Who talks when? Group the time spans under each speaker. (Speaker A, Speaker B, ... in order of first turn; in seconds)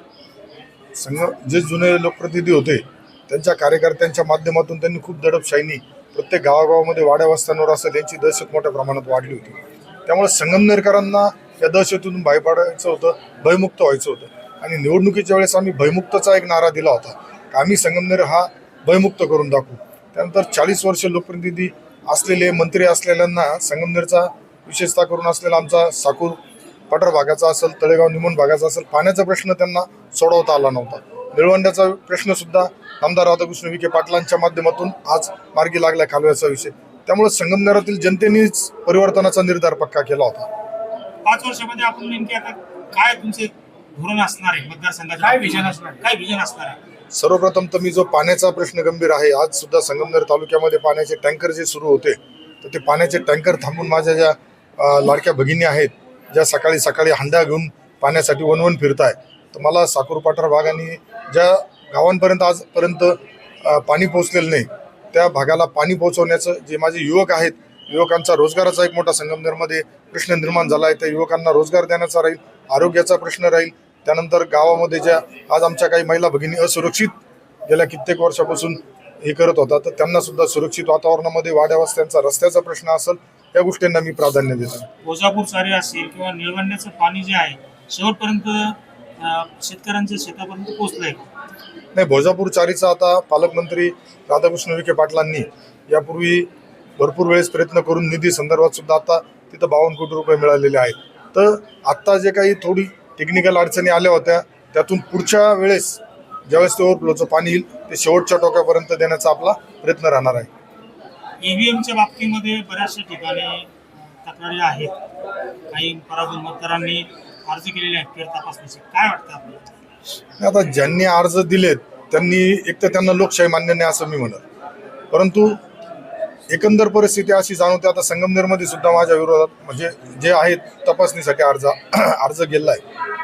Speaker A: 1.0-26.4, 26.9-40.5, 47.1-84.9, 92.0-110.5, 120.4-124.4, 125.1-125.6, 126.5-132.8
Speaker B: 41.2-46.8, 85.0-91.3, 111.4-113.7, 114.2-114.9, 115.7-119.6